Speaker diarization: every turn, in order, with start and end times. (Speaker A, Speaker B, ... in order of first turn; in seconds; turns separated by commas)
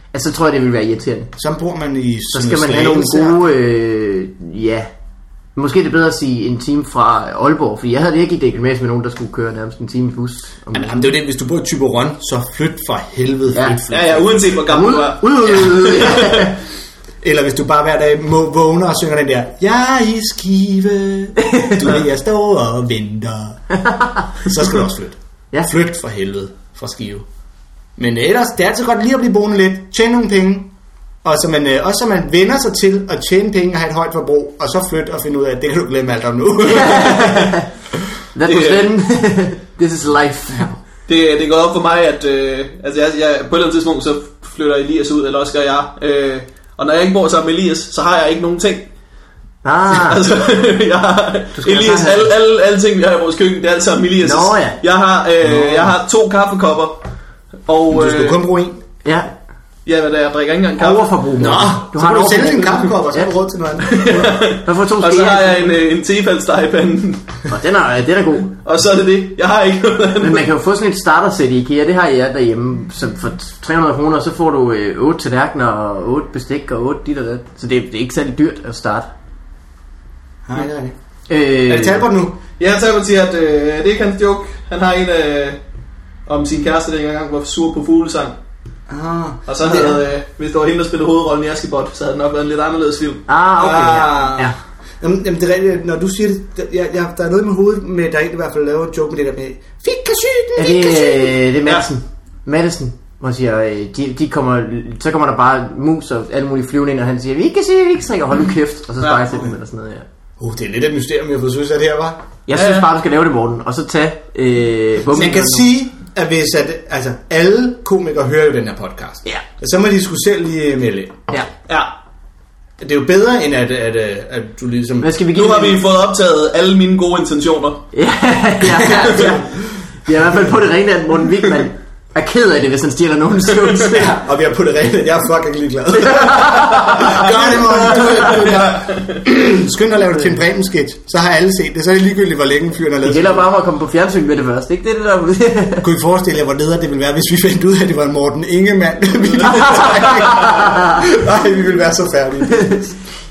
Speaker A: 0.1-1.3, Speaker B: 1.4-3.5, Speaker A: 2.3-4.9, Speaker A: 5.5-11.1, Speaker B: 10.7-14.6, Speaker A: 13.5-13.8, Speaker C: 13.9-16.5, Speaker A: 14.7-16.5, Speaker B: 15.5-16.1, Speaker B: 17.2-23.6, Speaker A: 21.4-21.8, Speaker A: 23.7-24.3, Speaker B: 24.4-27.2, Speaker B: 28.0-30.7, Speaker B: 31.2-37.6, Speaker A: 36.6-37.7, Speaker A: 38.3-40.7, Speaker C: 38.4-38.9, Speaker C: 41.1-48.9, Speaker A: 49.6-50.2, Speaker C: 49.9-57.0, Speaker A: 51.5-52.3, Speaker A: 54.2-54.8, Speaker B: 55.4-56.0, Speaker C: 57.6-58.4, Speaker B: 57.9-58.8, Speaker A: 59.0-59.3, Speaker C: 59.9-61.2, Speaker A: 60.8-63.3, Speaker B: 61.4-64.4, Speaker C: 63.9-67.3, Speaker A: 64.5-65.7, Speaker A: 67.5-68.5, Speaker C: 68.6-70.5, Speaker A: 70.2-79.1, Speaker B: 80.5-80.9, Speaker A: 81.3-82.1, Speaker B: 81.7-82.4, Speaker C: 82.6-85.6, Speaker C: 86.2-88.3, Speaker B: 88.9-90.0, Speaker C: 89.5-93.2, Speaker A: 93.3-94.5, Speaker B: 93.6-101.4, Speaker A: 100.5-110.0, Speaker B: 110.4-112.2, Speaker A: 112.5-115.7, Speaker C: 112.5-112.9, Speaker B: 115.1-121.2, Speaker B: 122.8-125.1, Speaker A: 125.0-125.8, Speaker C: 125.3-127.8, Speaker A: 127.9-129.5, Speaker B: 128.6-129.7, Speaker C: 128.9-129.3, Speaker A: 130.0-134.1, Speaker B: 133.9-143.4, Speaker A: 135.9-138.4, Speaker C: 137.9-139.2, Speaker A: 143.0-145.9, Speaker B: 145.8-152.9, Speaker A: 149.4-151.1, Speaker A: 152.5-152.9